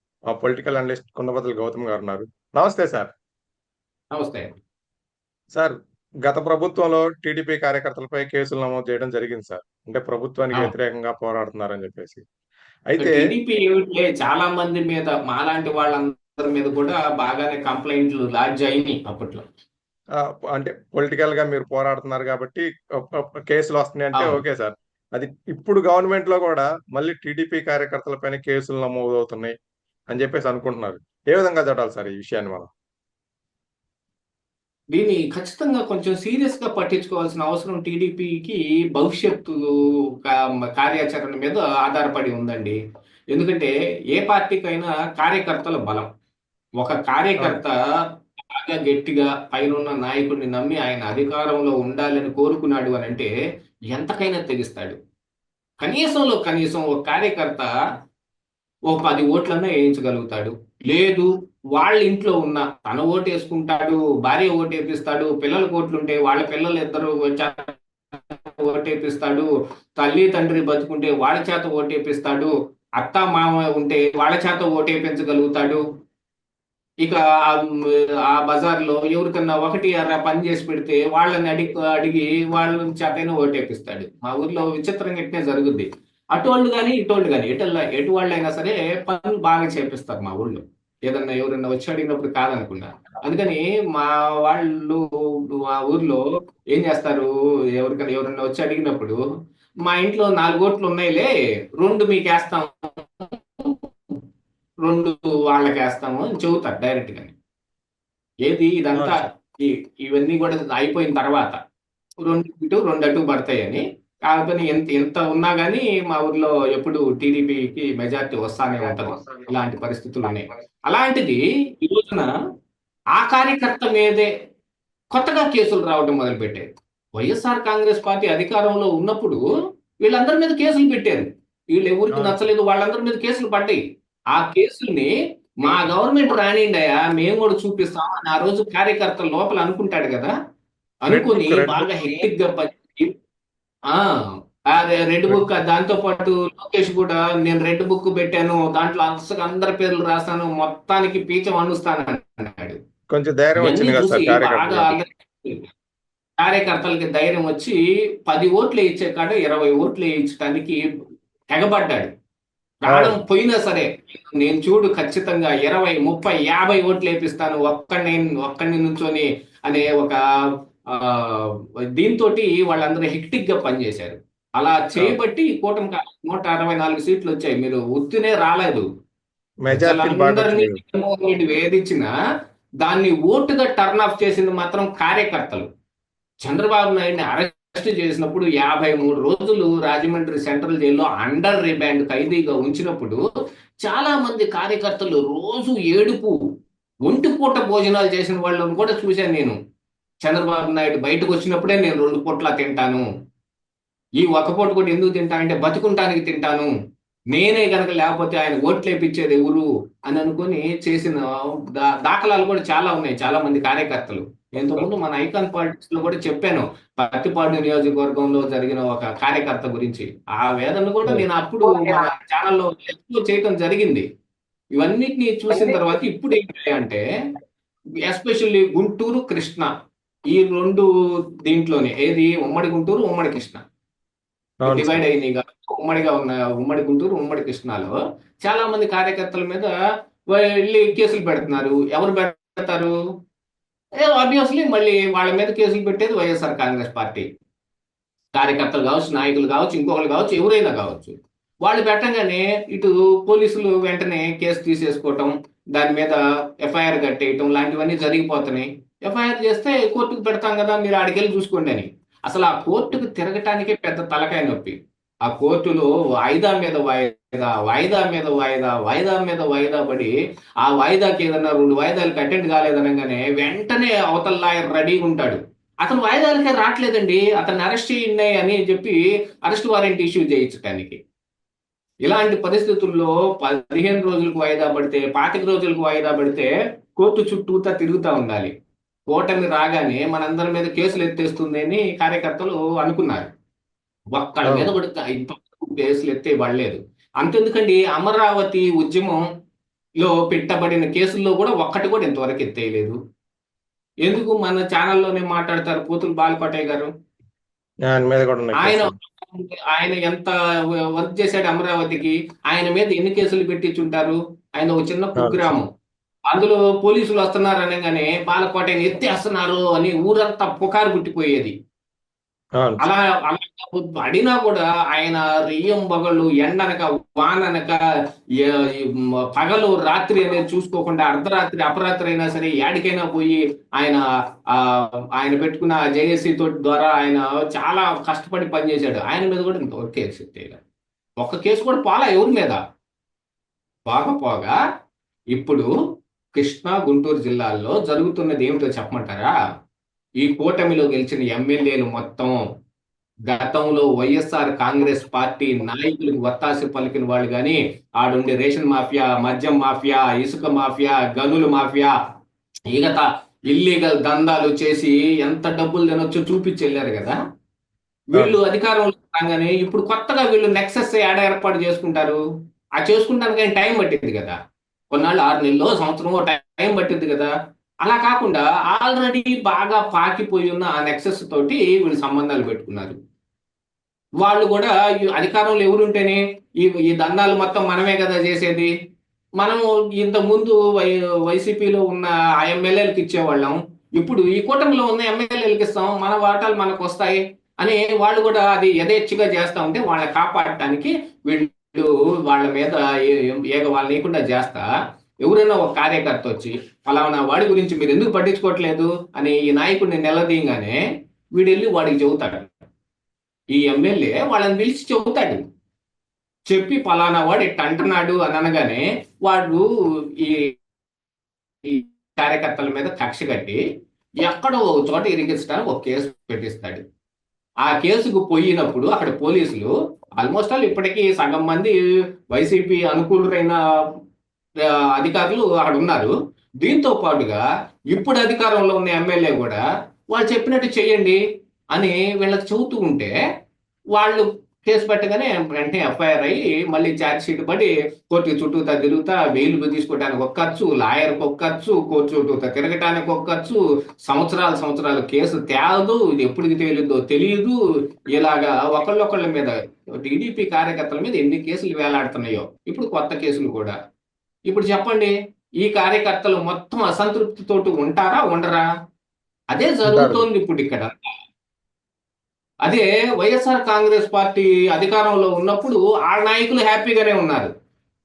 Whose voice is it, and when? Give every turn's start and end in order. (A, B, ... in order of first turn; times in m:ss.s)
0:00.3-0:03.1 A
0:04.1-0:04.5 B
0:05.5-0:12.2 A
0:12.9-0:13.2 A
0:13.0-0:19.4 B
0:20.2-0:29.6 A
0:30.1-0:32.7 A
0:34.9-0:39.7 B
0:40.2-0:42.8 B
0:43.3-0:46.1 B
0:46.8-0:47.8 B
0:48.5-0:53.3 B
0:53.9-0:55.0 B
0:55.8-0:57.7 B
0:58.9-1:15.8 B
1:17.0-1:35.0 B
1:35.7-1:36.2 B
1:36.7-1:39.2 B
1:39.9-1:44.2 B
1:44.9-1:47.4 B
1:48.5-1:51.6 B
1:52.2-2:02.3 B
2:03.2-2:04.3 B
2:05.1-2:06.7 B
2:07.2-2:09.4 B
2:10.0-2:13.8 B
2:12.1-2:12.4 A
2:14.3-2:15.1 B
2:15.6-2:20.3 B
2:21.1-2:23.1 B
2:21.1-2:22.2 A
2:23.9-2:32.8 B
2:33.1-2:35.0 A
2:33.6-2:35.6 B
2:36.4-2:40.8 B
2:41.5-2:42.1 B
2:42.9-2:50.2 B
2:42.9-2:43.2 A
2:50.9-2:58.9 B
2:59.6-3:00.8 A
2:59.7-3:02.1 B
3:02.8-3:05.7 B
3:06.4-3:13.2 B
3:13.8-3:16.4 B
3:17.1-3:19.6 B
3:20.2-3:23.1 B
3:24.2-3:26.7 B
3:27.3-3:44.0 B
3:44.8-3:47.0 B
3:48.1-3:49.7 B
3:50.3-3:50.9 B
3:51.5-3:53.6 B
3:54.6-3:55.0 A
3:54.7-3:59.7 B
4:00.3-4:03.0 B
4:04.0-4:07.2 B
4:08.4-4:30.1 B
4:30.6-4:41.0 B
4:42.0-4:48.5 B
4:49.1-4:53.3 B
4:54.2-4:59.2 B
4:54.4-4:54.7 A
5:00.0-5:03.0 B
5:04.0-5:06.9 B
5:07.9-5:08.9 A
5:08.6-5:10.3 B
5:10.9-5:15.7 B
5:15.2-5:15.6 A
5:16.3-5:21.5 B
5:22.6-5:22.8 A
5:22.8-5:27.8 B
5:28.4-5:40.6 B
5:41.2-5:42.6 B
5:43.9-5:44.6 B
5:45.3-5:45.7 B
5:46.4-5:49.3 B
5:50.2-5:52.4 B
5:53.3-6:01.9 B
6:02.7-6:07.2 B
6:08.1-6:12.2 B
6:12.8-6:14.4 B
6:14.9-6:17.3 B
6:17.8-6:23.0 B
6:24.2-6:28.7 B
6:29.4-6:44.6 B
6:45.2-6:50.8 B
6:51.4-6:52.5 B
6:53.5-6:55.4 B
6:56.5-6:59.6 B
7:00.2-7:00.6 B
7:01.6-7:03.6 B
7:04.2-7:06.8 B
7:07.7-7:11.8 B
7:12.3-7:13.6 B
7:15.0-7:21.2 B
7:21.8-7:23.1 B
7:24.0-7:37.6 B
7:38.1-7:43.8 B
7:44.5-7:48.7 B
7:49.5-7:51.0 B
7:49.8-7:50.3 A
7:52.6-7:57.5 B